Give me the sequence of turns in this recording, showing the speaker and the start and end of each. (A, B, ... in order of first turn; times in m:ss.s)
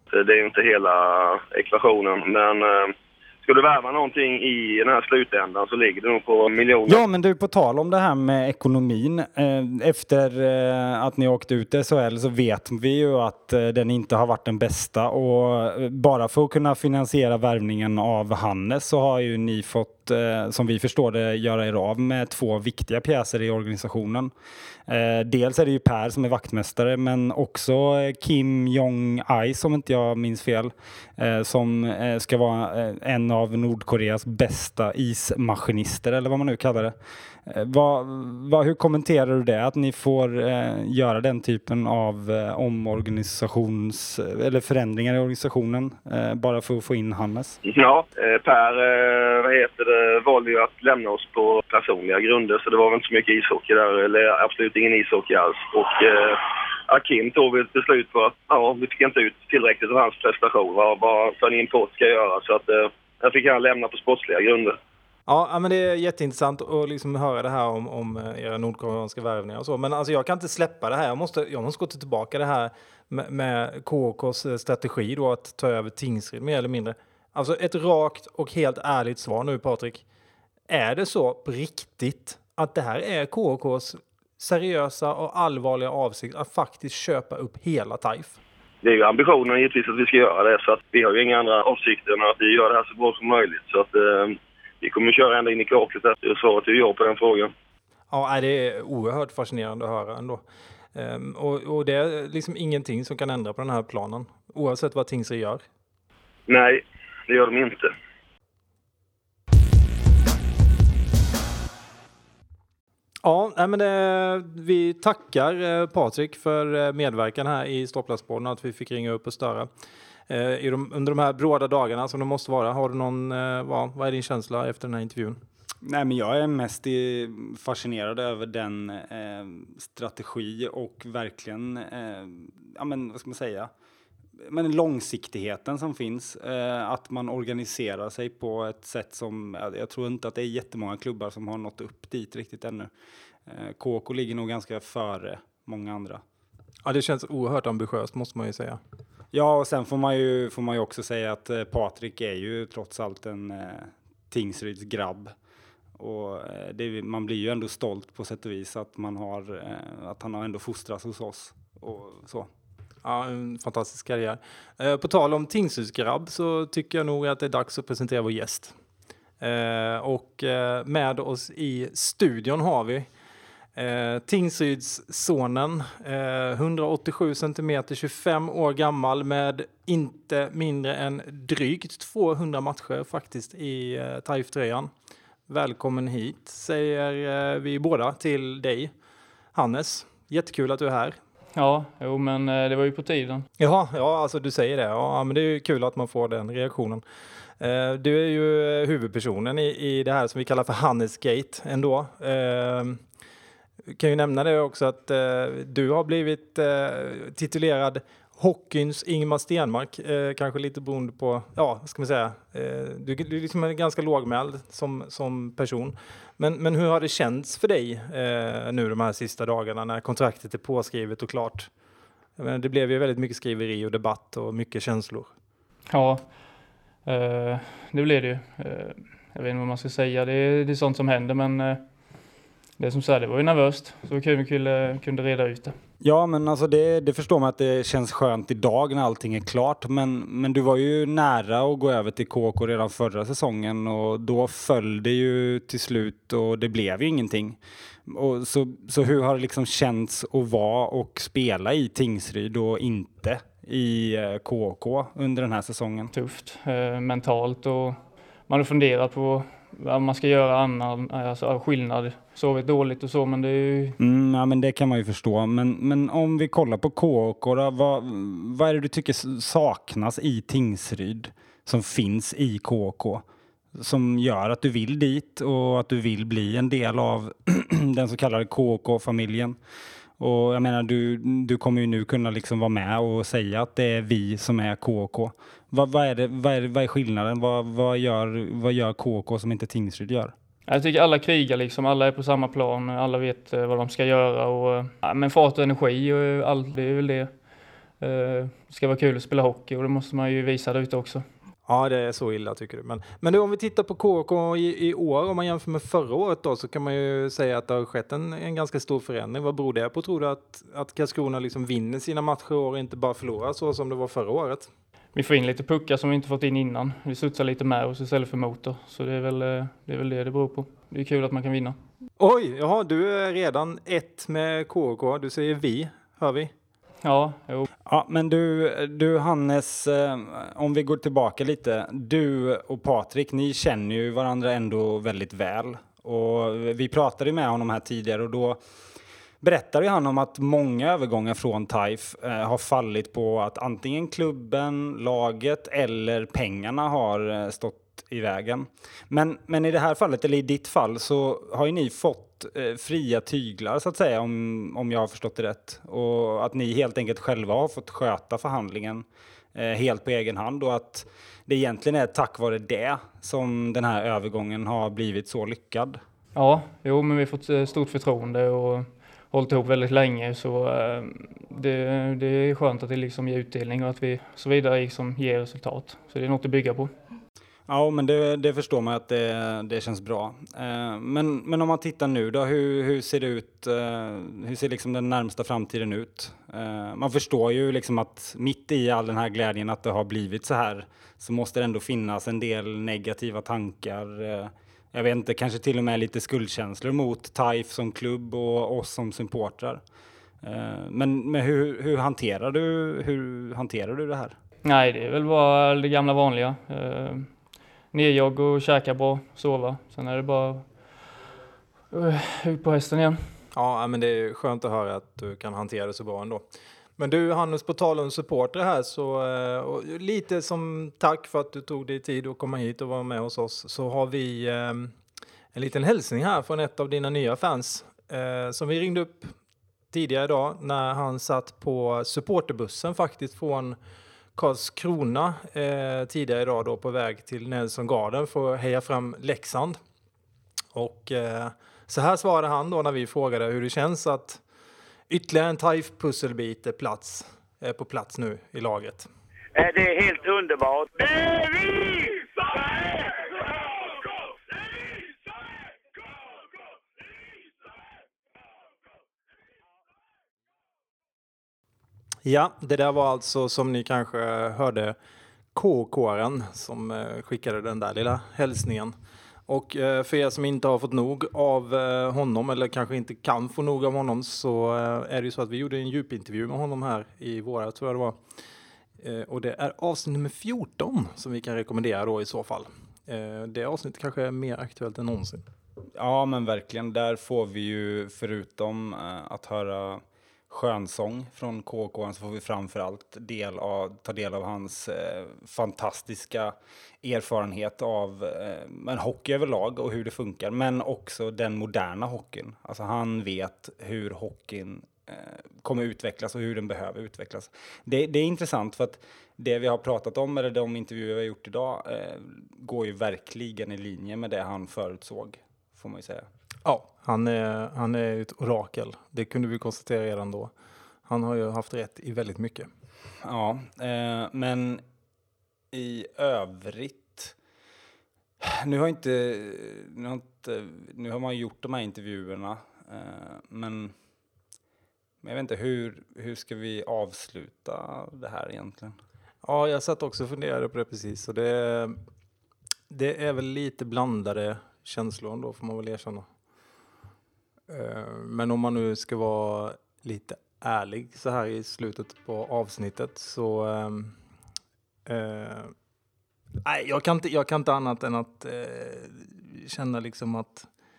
0:00.1-0:02.9 A
0:03.4-0:07.0 A
0:06.9-0:24.3 B
0:24.9-0:47.6 B
0:47.6-1:04.8 A
1:05.3-1:20.0 C
1:20.7-1:28.4 C
1:28.8-1:37.5 A
1:38.1-1:40.4 C
1:41.0-1:45.6 C
1:46.5-1:47.9 A
1:53.2-1:59.7 C
2:00.3-2:05.4 C
2:05.8-2:13.7 B
2:14.4-2:22.9 B
2:23.5-2:26.2 B
2:26.8-2:28.8 C
2:29.3-2:35.3 B
2:36.0-2:42.5 B
2:43.0-2:48.7 C
2:49.4-2:53.1 C
2:53.8-3:04.9 C
3:05.5-3:08.9 C
3:09.6-3:11.2 C
3:11.6-3:13.5 D
3:13.6-3:17.0 C
3:17.6-3:23.0 C
3:23.9-3:41.7 C
3:42.4-3:45.3 C
3:45.9-3:46.2 D
3:47.1-3:51.8 D
3:52.8-3:55.7 D
3:56.0-4:16.1 B
4:16.1-4:18.0 D
4:18.5-4:24.0 D
4:24.0-4:39.6 B
4:40.2-4:50.3 B
4:50.7-4:57.3 D
4:58.0-5:01.2 D
5:01.7-5:14.7 C
5:15.2-5:21.8 D
5:22.2-5:26.5 C
5:27.0-5:27.7 D
5:27.9-5:38.6 B
5:39.4-6:06.0 B
6:06.4-6:16.9 D
6:17.7-6:39.8 B
6:40.4-6:44.4 B
6:44.6-6:47.3 D
6:47.9-6:50.7 D
6:51.9-6:53.2 D
6:53.5-7:04.9 C
7:05.5-7:09.3 C
7:09.9-7:13.8 C
7:14.4-7:19.8 C
7:20.7-7:24.4 C
7:25.1-7:29.1 C
7:29.6-7:33.1 E
7:42.2-7:45.0 C
7:45.6-7:49.0 C
7:49.5-7:58.2 C
7:59.0-8:05.4 C
8:06.0-8:36.3 B
8:36.6-8:40.5 C
8:41.1-8:42.7 C
8:43.2-8:44.8 B
8:45.7-8:47.4 B
8:48.4-8:53.9 B
8:55.2-8:59.0 B
8:59.4-9:02.0 C
9:02.9-9:06.2 C
9:07.7-9:14.2 C
9:15.1-9:15.7 C
9:16.6-9:20.7 C